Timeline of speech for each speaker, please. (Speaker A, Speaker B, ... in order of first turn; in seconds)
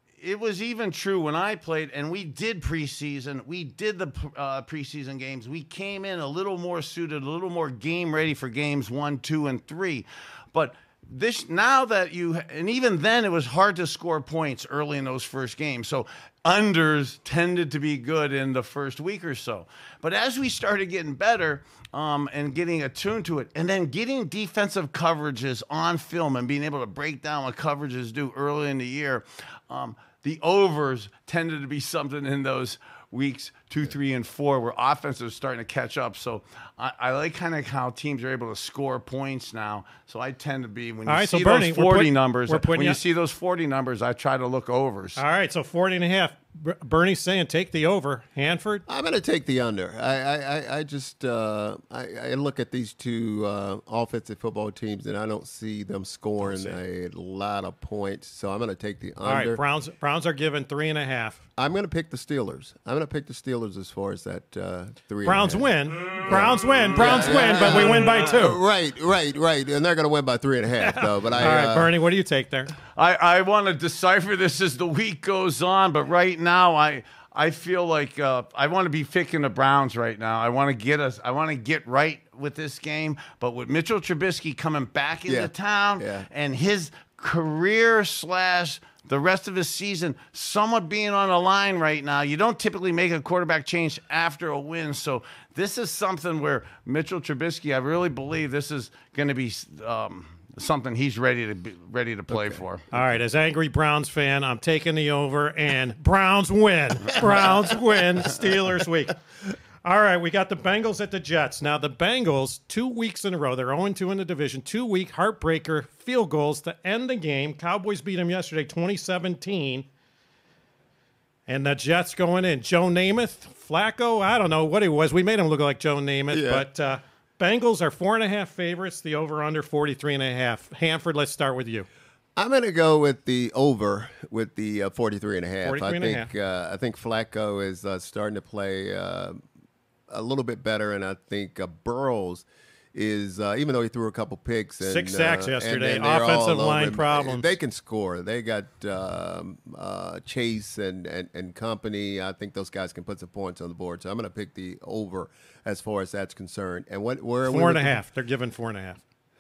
Speaker A: 0.2-45.2, 67.0-68.1, 73.0-102.8
Speaker B: 41.1-43.0, 45.2-48.9, 59.2-61.4, 65.2-68.6, 70.8-72.7, 102.9-109.2, 109.8-119.9, 121.5-131.9, 135.7-136.3, 144.8-147.5, 157.5-159.0
Speaker C: 48.9-59.6, 61.6-71.9, 85.3-86.3, 102.3-102.6, 126.3-126.7, 132.4-139.4, 140.1-158.0